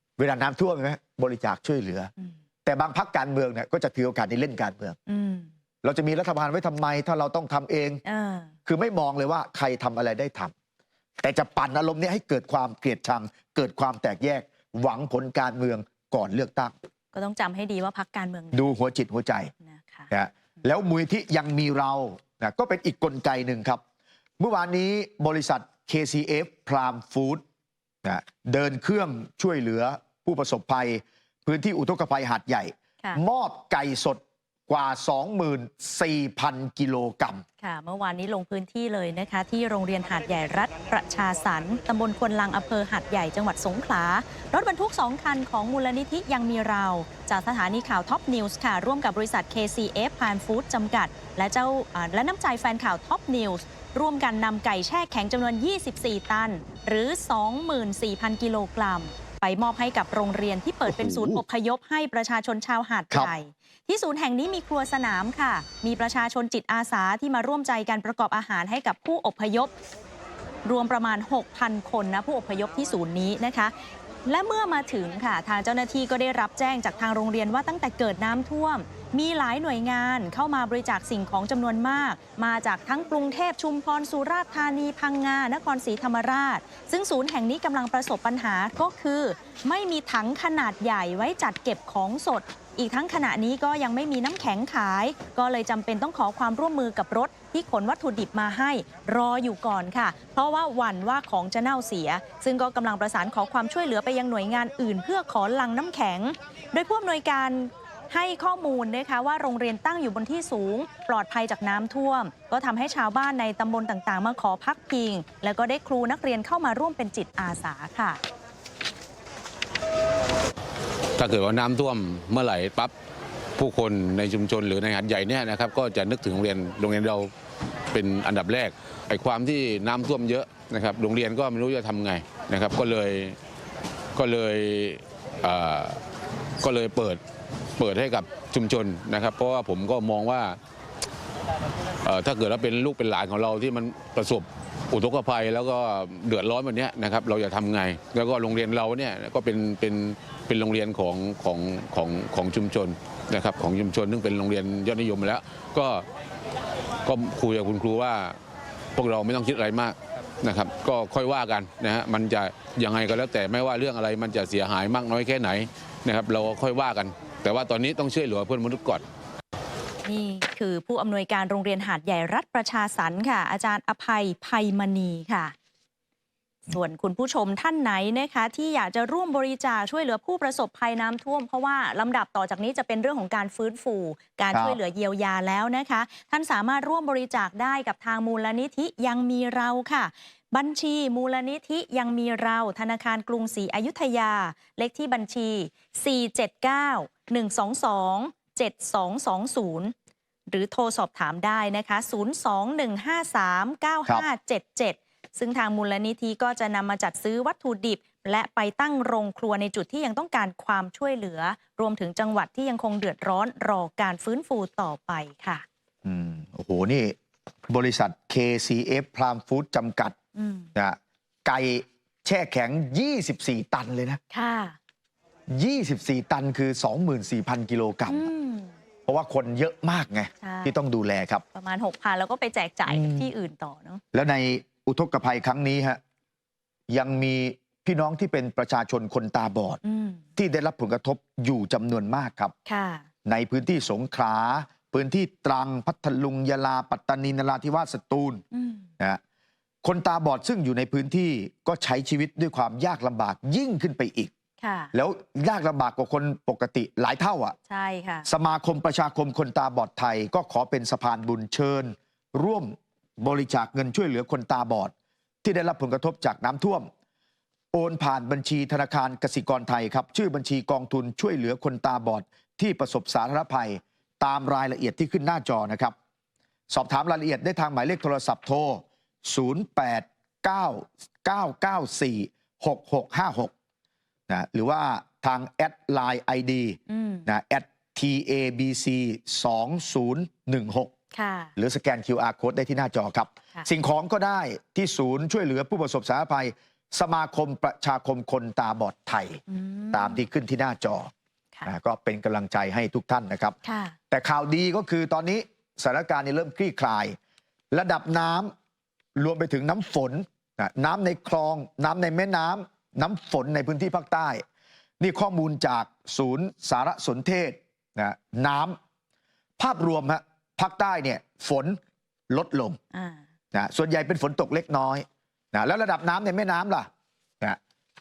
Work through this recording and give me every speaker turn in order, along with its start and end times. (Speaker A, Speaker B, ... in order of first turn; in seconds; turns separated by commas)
Speaker A: 0.2-2.1, Speaker A: 2.6-5.0, Speaker B: 5.1-5.5, Speaker A: 5.8-8.0, Speaker B: 8.1-8.6, Speaker A: 8.7-10.5, Speaker A: 11.2-16.8, Speaker B: 17.1-18.8, Speaker A: 18.5-19.5, Speaker B: 19.5-20.1, Speaker A: 20.1-23.8, Speaker A: 24.4-27.4, Speaker A: 28.0-37.5, Speaker B: 37.6-69.7, Speaker A: 60.9-61.4, Speaker B: 70.7-73.7, Speaker B: 74.3-118.2, Speaker C: 121.2-122.9, Speaker C: 123.6-127.3, Speaker C: 127.9-133.4, Speaker C: 134.2-136.0, Speaker C: 136.6-137.2, Speaker C: 137.8-140.6, Speaker C: 142.0-156.1, Speaker C: 157.0-158.4, Speaker C: 159.0-169.1, Speaker B: 170.1-175.5, Speaker B: 176.7-199.9, Speaker A: 184.5-184.8, Speaker B: 200.5-215.7, Speaker A: 216.1-217.2, Speaker A: 217.7-220.2, Speaker B: 220.3-220.7, Speaker A: 220.8-224.2, Speaker B: 224.3-224.8, Speaker A: 225.5-228.3, Speaker B: 228.1-228.7, Speaker A: 229.1-231.4, Speaker B: 230.4-230.8, Speaker B: 231.5-234.0, Speaker A: 232.9-233.3, Speaker A: 234.1-236.0, Speaker A: 236.9-239.8, Speaker B: 239.8-240.3, Speaker A: 240.4-242.6, Speaker B: 242.7-243.1, Speaker A: 243.2-248.4, Speaker B: 248.5-248.9, Speaker A: 249.8-254.3, Speaker B: 254.6-254.9, Speaker A: 254.9-257.6, Speaker B: 257.7-258.3, Speaker A: 258.2-264.9, Speaker A: 265.4-266.9, Speaker A: 267.7-275.9, Speaker A: 276.7-283.5, Speaker A: 284.3-290.9, Speaker B: 286.9-287.3, Speaker B: 291.1-291.5, Speaker A: 291.6-301.1, Speaker B: 299.5-300.3, Speaker A: 301.7-303.6, Speaker B: 303.6-304.0, Speaker A: 304.1-307.2, Speaker A: 307.7-308.5, Speaker A: 309.2-314.4, Speaker A: 315.0-318.8, Speaker A: 319.6-321.8, Speaker A: 322.3-322.8, Speaker B: 322.9-323.2, Speaker A: 323.5-326.9